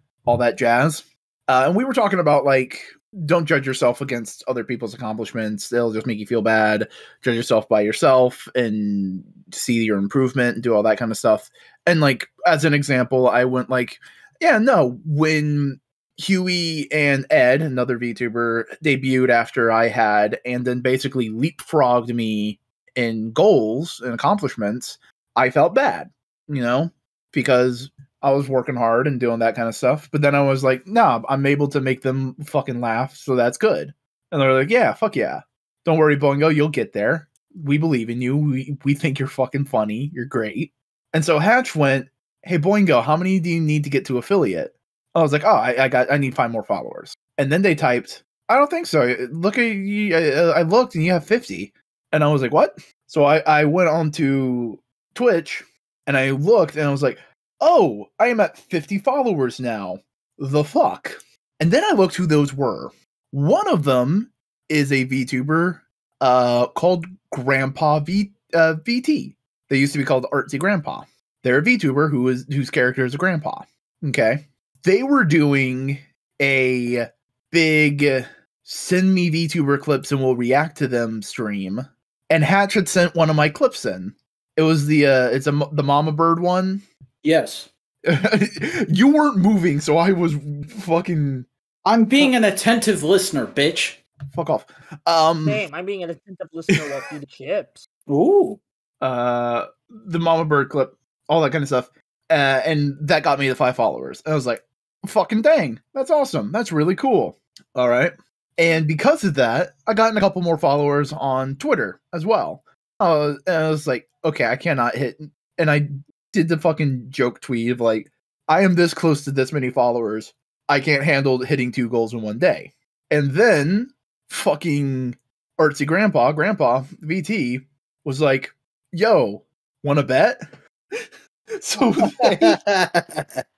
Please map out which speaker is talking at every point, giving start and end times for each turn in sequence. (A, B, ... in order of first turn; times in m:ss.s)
0:00.2-1:26.8 A
1:27.2-1:27.7 B
1:28.0-1:31.5 A
1:31.8-1:34.0 B
1:34.3-1:35.6 A
1:35.4-1:37.9 C
1:38.1-1:38.6 B
1:39.0-2:10.4 A
2:11.6-2:12.6 A
2:12.0-2:13.4 B